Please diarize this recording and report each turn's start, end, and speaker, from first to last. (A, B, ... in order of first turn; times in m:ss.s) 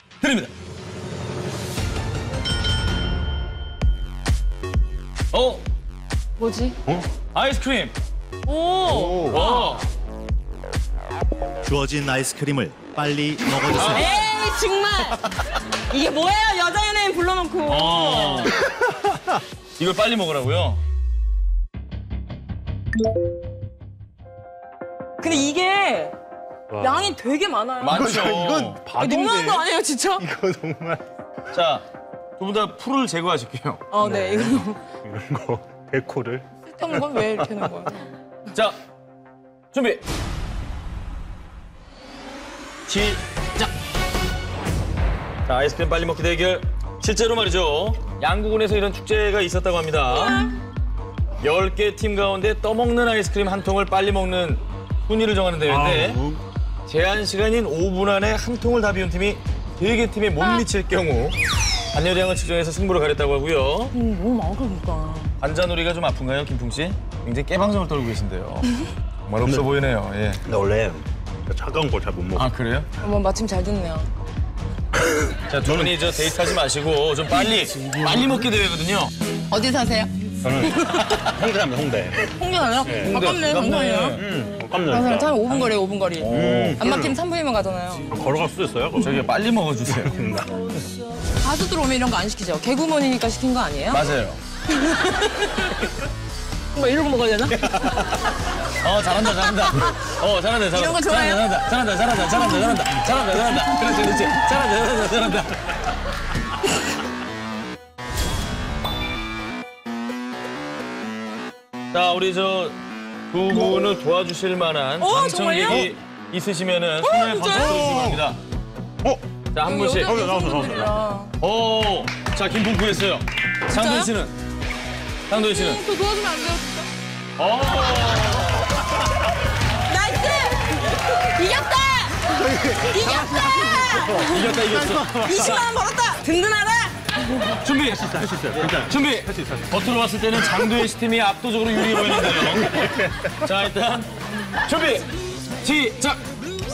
0:00.2-0:00.5 A
0:05.3-0:05.6 A
0:06.4-0:06.8 B
0:07.3-0:07.9 A
0:08.4-0:09.8 B
0:08.9-0:09.4 C
0:09.3-0:09.8 A
0:11.6-0:14.1 D
0:13.7-0:18.6 B
0:17.7-0:18.6 A
0:19.8-0:20.8 A
0:25.2-0:26.1 B
0:26.7-0:27.1 C
0:26.8-0:28.1 B
0:27.8-0:28.8 A
0:27.9-0:29.6 C
0:28.9-0:30.2 B
0:30.2-0:31.0 C
0:31.5-0:31.8 A
0:32.4-0:33.9 A
0:33.9-0:34.8 B
0:34.0-0:37.7 C
0:36.7-0:38.1 B
0:38.5-0:38.8 A
0:39.7-0:40.0 A
0:42.9-0:43.7 A
0:45.4-0:50.5 A
0:50.1-0:50.6 B
0:51.4-0:56.2 A
0:55.7-0:56.4 C
0:56.8-1:01.4 A
1:01.9-1:03.9 A
1:03.9-1:05.3 B
1:05.4-1:08.8 A
1:09.3-1:10.4 A
1:10.4-1:12.5 C
1:12.3-1:12.9 A
1:13.0-1:14.1 B
1:15.0-1:15.9 C
1:15.5-1:19.1 A
1:19.5-1:21.4 B
1:20.4-1:22.3 C
1:22.2-1:24.2 B
1:22.8-1:23.2 C
1:23.0-1:24.2 A
1:24.1-1:25.5 C
1:24.8-1:28.1 B
1:25.5-1:26.8 A
1:26.3-1:27.2 C
1:28.1-1:29.3 C
1:29.0-1:30.2 A
1:29.9-1:30.5 C
1:31.4-1:34.0 B
1:33.9-1:34.4 A
1:34.7-1:35.9 B
1:36.7-1:38.2 B
1:38.8-1:45.6 A
1:40.7-1:41.5 B
1:51.9-1:52.8 A
1:53.3-1:58.4 A
1:55.0-1:55.9 B
1:57.0-1:57.9 B
1:57.7-1:58.2 C
1:59.5-2:00.2 A
1:59.6-2:01.3 B
2:00.0-2:01.0 C
2:01.4-2:04.3 A
2:03.7-2:04.1 B
2:05.3-2:05.8 A
2:05.3-2:06.9 B
2:07.4-2:08.6 A
2:09.8-2:17.4 B
2:13.5-2:15.2 C
2:14.2-2:15.7 A
2:17.6-2:24.1 A
2:18.0-2:19.6 C
2:24.6-2:25.1 A
2:25.6-2:26.2 A